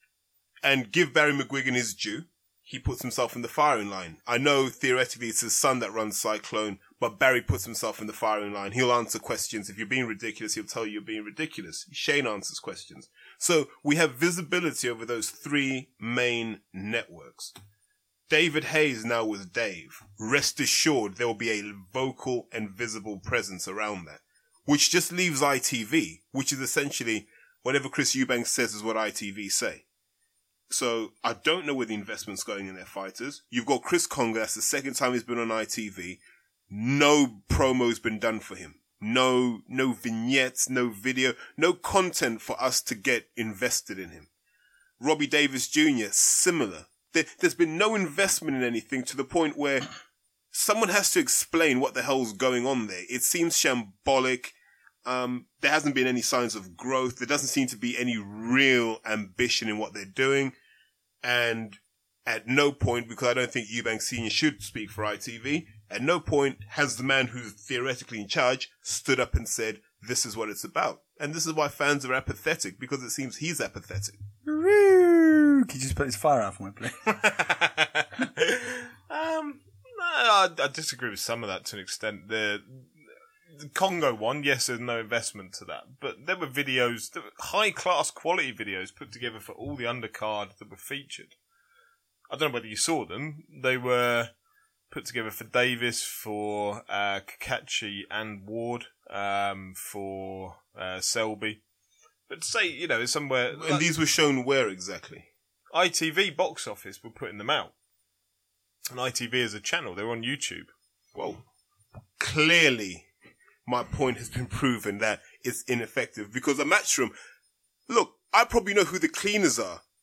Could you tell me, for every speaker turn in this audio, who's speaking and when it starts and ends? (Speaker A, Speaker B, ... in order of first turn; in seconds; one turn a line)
Speaker A: 0.6-17.5
Speaker A: 18.3-29.8
Speaker A: 30.7-44.3
Speaker A: 45.0-49.9
Speaker A: 50.5-60.5
Speaker A: 61.2-74.2
Speaker B: 74.5-77.2
Speaker C: 77.4-82.9
Speaker C: 83.5-91.3
Speaker C: 92.3-94.3
Speaker C: 94.9-101.6
Speaker C: 102.3-103.8
Speaker A: 103.6-105.3
Speaker C: 105.7-107.7
Speaker C: 108.9-110.7
Speaker A: 111.1-111.4
Speaker A: 112.2-113.1
Speaker A: 113.7-117.1
Speaker A: 117.9-119.8